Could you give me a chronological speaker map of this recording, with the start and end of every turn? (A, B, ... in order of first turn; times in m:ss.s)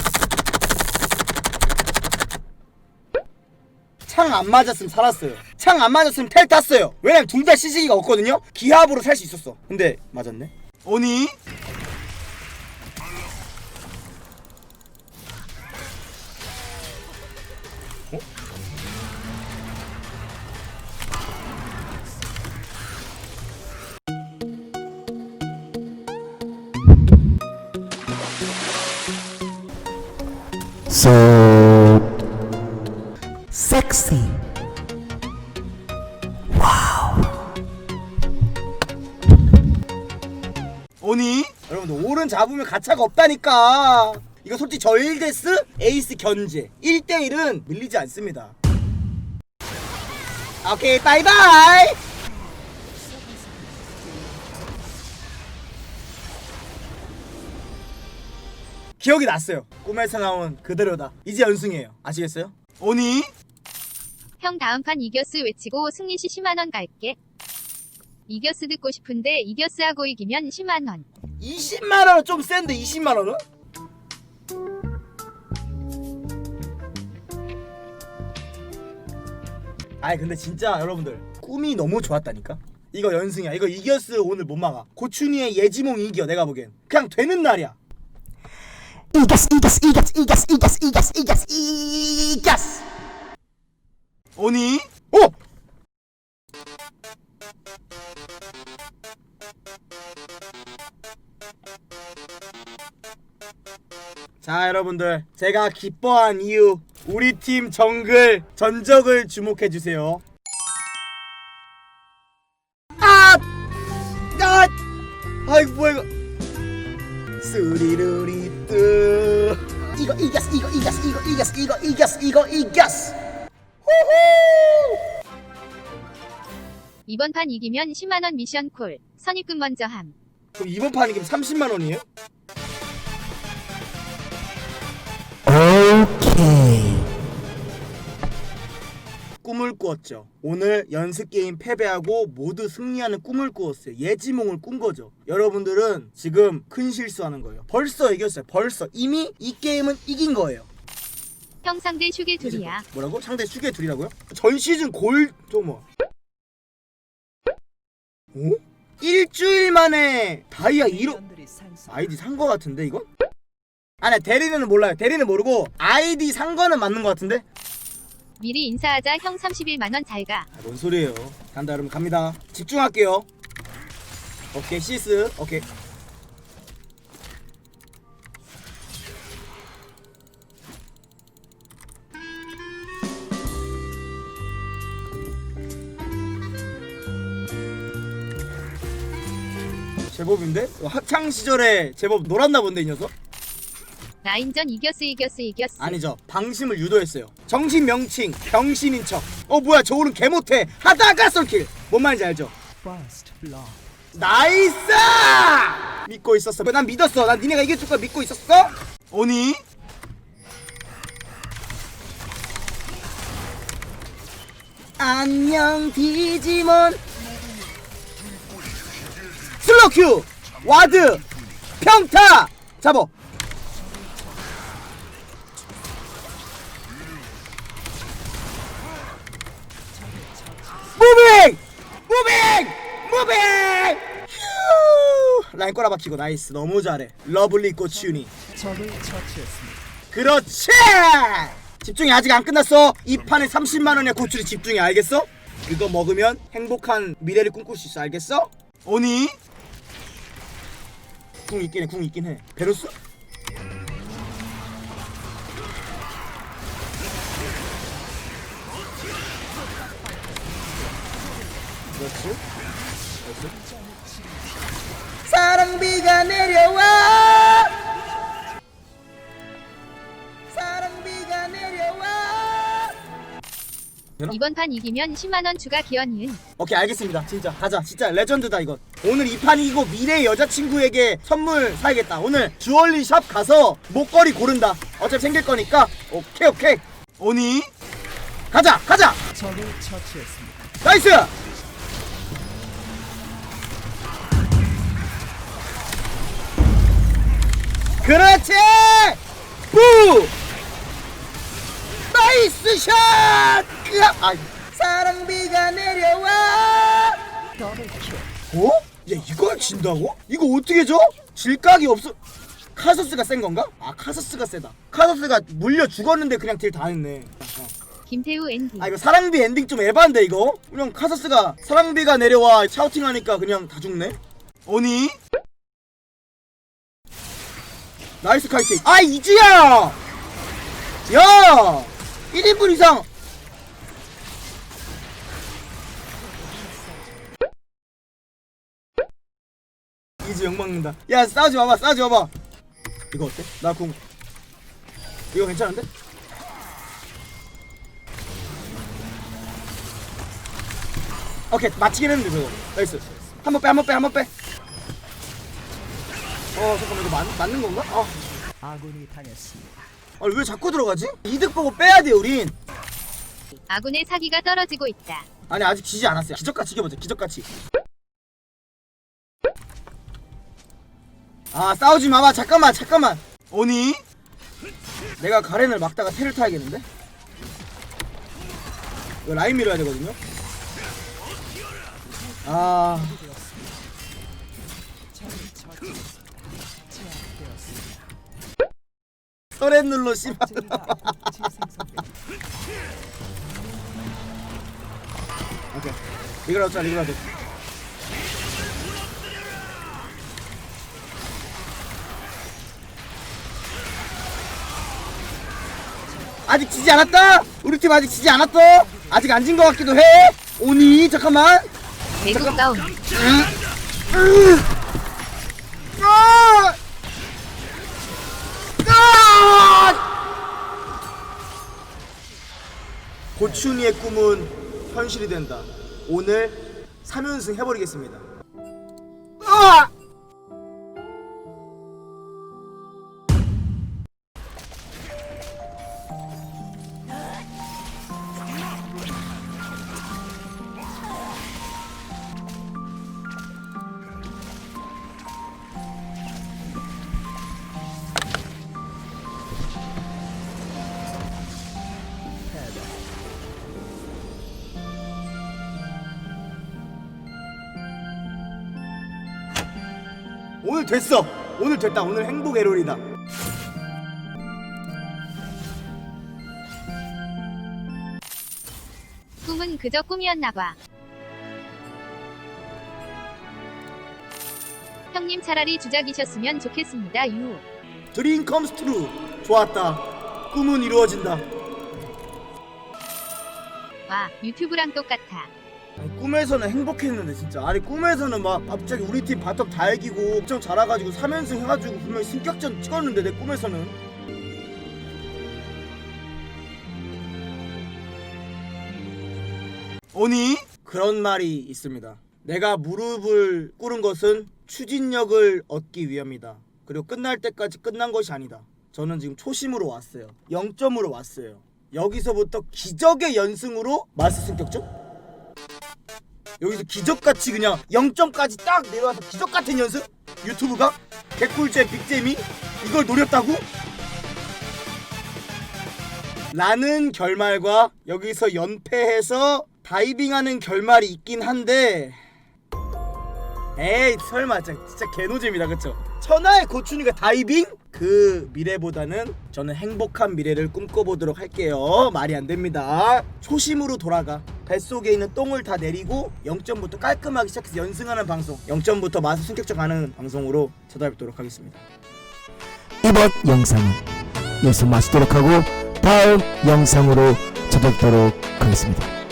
0:04.1-0:11.4 A
0:30.9-0:32.0 B
0:33.5-0:34.4 B
0:36.6-0:37.2 B
0:41.0-0:48.5 A
0:50.6-0:52.0 A
0:53.2-0:53.6 C
0:59.0-1:03.3 A
1:04.4-1:07.2 D
1:08.3-1:11.1 D
1:11.4-1:13.4 A
1:20.0-1:27.8 A
1:29.1-1:32.8 B
1:34.4-1:35.3 A
1:44.4-1:50.2 A
1:53.0-1:53.4 A
1:54.4-1:54.7 A
1:55.4-1:56.1 A
1:57.4-2:03.2 A
2:03.8-2:05.0 A
2:07.0-2:10.1 D
2:10.5-2:12.0 A
2:15.5-2:17.1 B
2:19.4-2:30.7 A
2:31.6-2:32.8 D
2:32.4-2:35.8 A
2:38.3-2:41.2 A
2:40.9-2:42.0 C
2:41.9-2:43.0 A
2:44.0-2:47.4 A
2:48.4-2:50.5 D
2:50.5-2:53.3 A
2:54.5-2:55.6 A
3:10.1-3:13.1 A
3:14.2-3:16.0 D
3:15.8-3:22.5 A
3:22.8-3:23.8 C
3:24.1-3:29.6 A
3:35.0-3:37.0 A
3:39.6-3:41.2 A
3:41.8-3:43.1 A
3:43.8-3:44.2 C
3:49.9-3:50.8 C
3:50.9-3:58.3 A
3:58.1-3:59.8 C
4:00.1-4:09.4 A
4:11.5-4:12.9 A
4:19.8-4:21.0 C
4:21.9-4:22.4 A
4:23.2-4:23.5 A
4:23.5-4:24.4 C
4:25.2-4:27.8 A
4:30.5-4:33.0 A
4:34.3-4:36.4 D
4:36.6-4:47.7 A
4:48.5-4:49.2 A
4:49.3-4:50.6 C
4:50.8-4:51.3 A
4:58.0-4:59.2 A
4:59.7-5:00.3 A
5:02.1-5:07.2 A
5:07.6-5:08.3 C
5:08.5-5:12.2 A
5:12.8-5:17.7 A
5:18.1-5:18.9 D
5:18.8-5:25.2 A
5:28.2-5:30.0 A
5:31.1-5:33.1 A
5:36.4-5:37.0 C
5:40.2-5:42.3 A
5:43.1-5:44.0 A
5:45.3-5:45.9 A
5:51.5-5:54.3 A
5:52.5-5:53.4 C
5:56.5-5:58.1 A
5:58.6-5:59.8 C
6:00.2-6:02.6 A
6:03.6-6:05.3 D
6:05.5-6:07.5 A
6:11.5-6:14.0 A
6:15.2-6:16.8 A
6:19.2-6:20.2 A
6:22.3-6:23.7 C
6:22.4-6:23.2 A
6:25.1-6:26.2 C
6:26.9-6:28.0 C
6:29.6-6:31.3 A
6:30.5-6:32.1 C
6:35.7-6:37.3 A
6:46.5-6:51.7 A
6:48.3-6:49.2 C
6:52.2-6:52.9 D
6:52.3-6:53.6 A
6:54.1-6:54.7 A
6:56.0-6:56.8 A
6:58.8-7:00.0 A
7:03.4-7:08.2 A
7:09.4-7:09.9 A
7:32.6-7:32.9 C
7:40.6-7:43.0 A
7:49.4-7:50.8 D
7:55.1-7:57.6 D
7:58.1-8:01.4 A
8:04.1-8:05.5 D
8:06.0-8:14.0 A
8:20.1-8:34.9 A
8:36.6-8:43.6 A
8:46.5-8:52.2 A
8:53.8-9:11.8 A
9:13.0-9:19.1 B